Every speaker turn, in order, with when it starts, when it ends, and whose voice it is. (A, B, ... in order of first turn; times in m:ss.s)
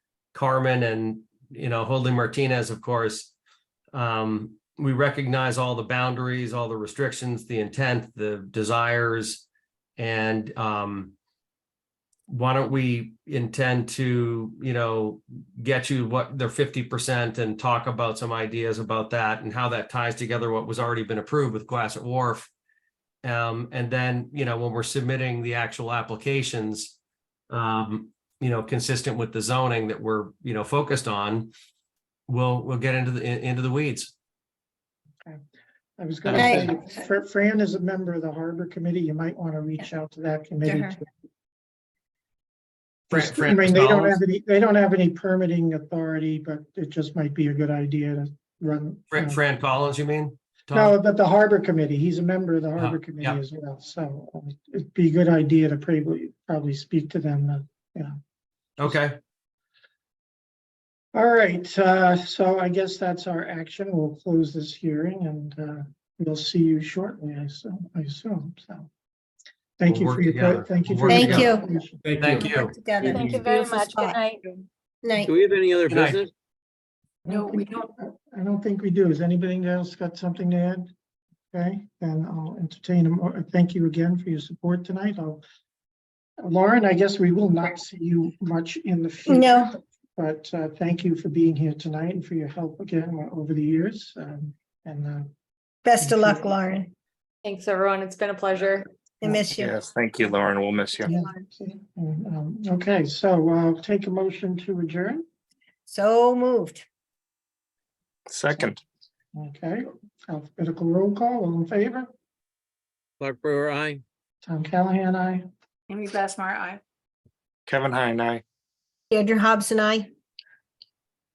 0:00.3-0:03.3 A
0:03.9-0:09.4 A
0:10.0-0:11.1 A
0:12.3-0:22.5 A
0:23.2-0:27.0 A
0:27.5-0:31.5 A
0:32.3-0:34.1 A
0:36.0-0:41.0 B
0:36.2-0:36.7 A
0:36.3-0:36.7 C
0:40.6-0:41.0 D
0:43.1-0:44.2 A
0:43.1-0:49.4 B
0:49.1-0:51.0 A
0:50.7-0:58.2 B
0:52.8-0:53.4 A
0:58.8-0:59.2 A
1:01.1-1:08.9 B
1:09.8-1:12.0 B
1:09.8-1:11.5 A
1:11.1-1:11.7 C
1:12.0-1:12.5 E
1:12.2-1:12.8 A
1:12.2-1:14.2 C
1:13.0-1:13.4 E
1:13.0-1:14.6 D
1:15.0-1:15.3 C
1:15.2-1:16.3 E
1:15.9-1:16.2 A
1:17.2-1:20.9 B
1:17.3-1:17.9 D
1:21.5-1:25.4 B
1:26.4-1:35.3 B
1:29.3-1:29.7 C
1:35.8-1:36.9 C
1:36.0-1:36.5 B
1:37.4-1:38.9 D
1:39.2-1:39.8 C
1:39.6-1:41.1 F
1:41.0-1:45.2 B
1:45.9-1:46.8 C
1:48.3-1:48.8 F
1:49.3-1:52.1 B
1:53.2-1:54.0 E
1:54.4-1:55.4 B
1:55.9-1:56.8 D
1:57.7-1:58.4 F
1:59.1-2:00.1 C